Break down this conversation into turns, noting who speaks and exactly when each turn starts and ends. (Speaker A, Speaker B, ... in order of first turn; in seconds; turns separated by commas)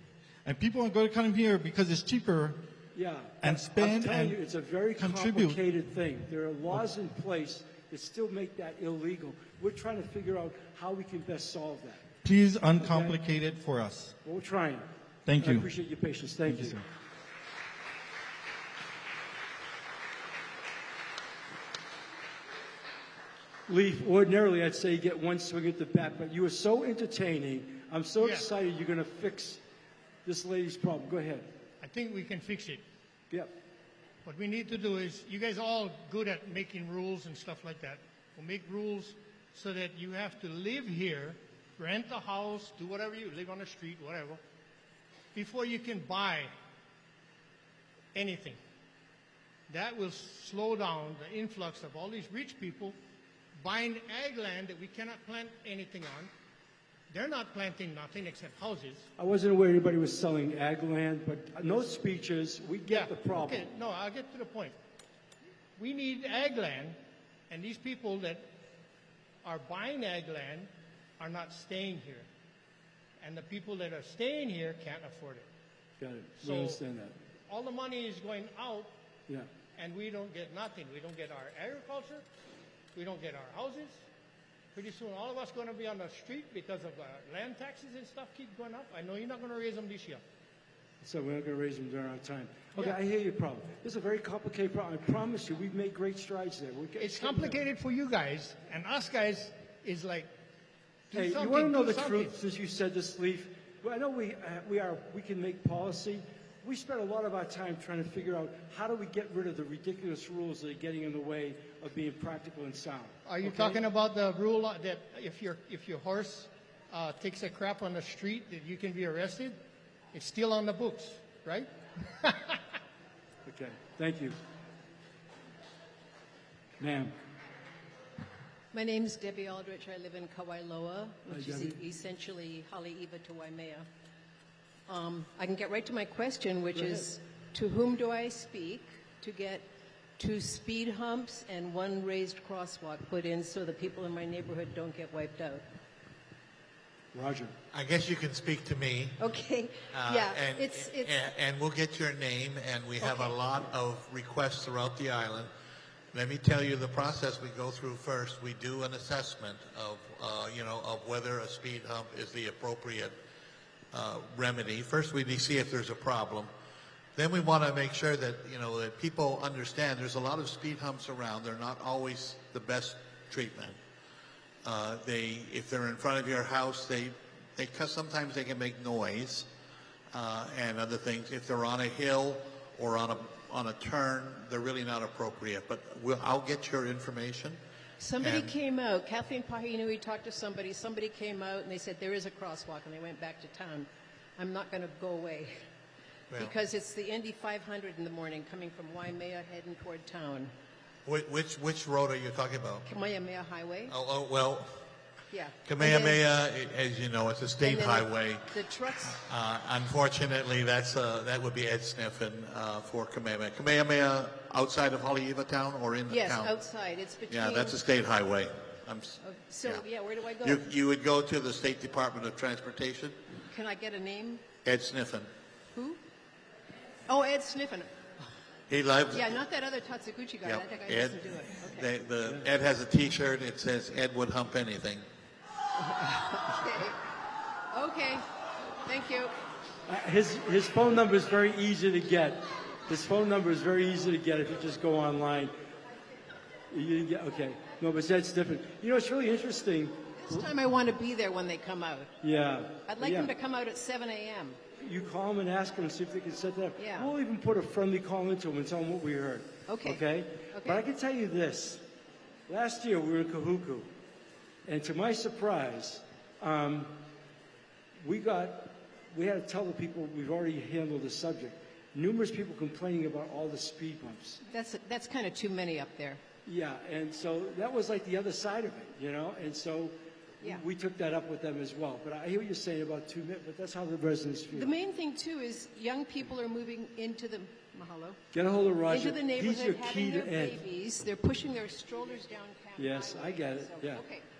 Speaker A: 0.4-2.6, Speaker B: 2.9-12.1, Speaker A: 3.4-4.4, Speaker A: 5.0-5.6, Speaker A: 12.2-14.1, Speaker B: 12.8-13.2, Speaker B: 14.2-14.8, Speaker A: 15.2-15.7, Speaker B: 15.4-16.8, Speaker A: 16.4-16.8, Speaker B: 23.7-29.6, Speaker C: 28.2-28.5, Speaker B: 30.2-31.5, Speaker C: 31.8-32.8, Speaker C: 34.2-44.4, Speaker C: 45.3-46.5, Speaker C: 48.1-48.6, Speaker C: 49.7-53.0, Speaker C: 53.6-56.3, Speaker C: 57.1-59.1, Speaker B: 59.2-63.7, Speaker C: 62.9-64.7, Speaker C: 65.8-67.0, Speaker C: 67.5-68.5, Speaker C: 69.4-72.3, Speaker C: 73.2-75.4, Speaker B: 76.0-77.2, Speaker C: 76.4-76.8, Speaker C: 77.5-78.9, Speaker C: 79.7-82.2, Speaker C: 82.9-84.0, Speaker C: 84.7-90.2, Speaker B: 91.0-97.6, Speaker C: 97.0-100.3, Speaker C: 101.1-102.4, Speaker B: 101.1-113.8, Speaker C: 113.2-119.5, Speaker C: 120.1-122.8, Speaker B: 123.5-124.3, Speaker B: 126.8-127.1, Speaker D: 128.7-133.8, Speaker B: 131.3-131.8, Speaker D: 134.9-139.7, Speaker B: 136.7-137.1, Speaker D: 140.2-145.6, Speaker B: 147.1-147.5, Speaker E: 147.7-149.2, Speaker D: 149.2-151.1, Speaker E: 149.9-155.5, Speaker D: 153.0-153.3, Speaker E: 156.1-163.1, Speaker E: 163.9-166.5, Speaker E: 167.2-173.8, Speaker E: 174.6-179.5, Speaker E: 180.1-187.6, Speaker D: 188.0-195.6, Speaker E: 188.2-188.5, Speaker D: 196.4-200.5, Speaker E: 201.1-202.8, Speaker D: 202.8-203.9, Speaker E: 203.9-204.7, Speaker D: 205.3-206.2, Speaker E: 205.6-208.5, Speaker D: 207.6-209.2, Speaker E: 209.1-216.5, Speaker D: 216.1-217.8, Speaker E: 217.3-219.8, Speaker D: 219.2-220.6, Speaker E: 220.4-223.2, Speaker D: 223.5-224.4, Speaker E: 224.6-225.3, Speaker D: 225.7-226.0, Speaker D: 227.1-227.9, Speaker E: 228.7-229.4, Speaker D: 229.1-231.9, Speaker E: 230.4-235.0, Speaker B: 232.2-232.5, Speaker D: 235.8-237.0, Speaker D: 237.7-238.2, Speaker D: 238.8-239.3, Speaker B: 239.9-245.5, Speaker B: 246.7-250.5, Speaker D: 250.2-252.1, Speaker B: 252.2-253.3, Speaker D: 252.9-254.6, Speaker B: 254.8-261.8, Speaker D: 256.8-257.1, Speaker D: 259.7-260.8, Speaker B: 262.5-263.9, Speaker B: 264.6-267.0, Speaker B: 268.0-274.4, Speaker D: 274.5-276.2, Speaker B: 276.4-284.7, Speaker D: 284.5-288.2, Speaker B: 288.3-290.6, Speaker D: 288.9-294.2, Speaker B: 292.8-294.0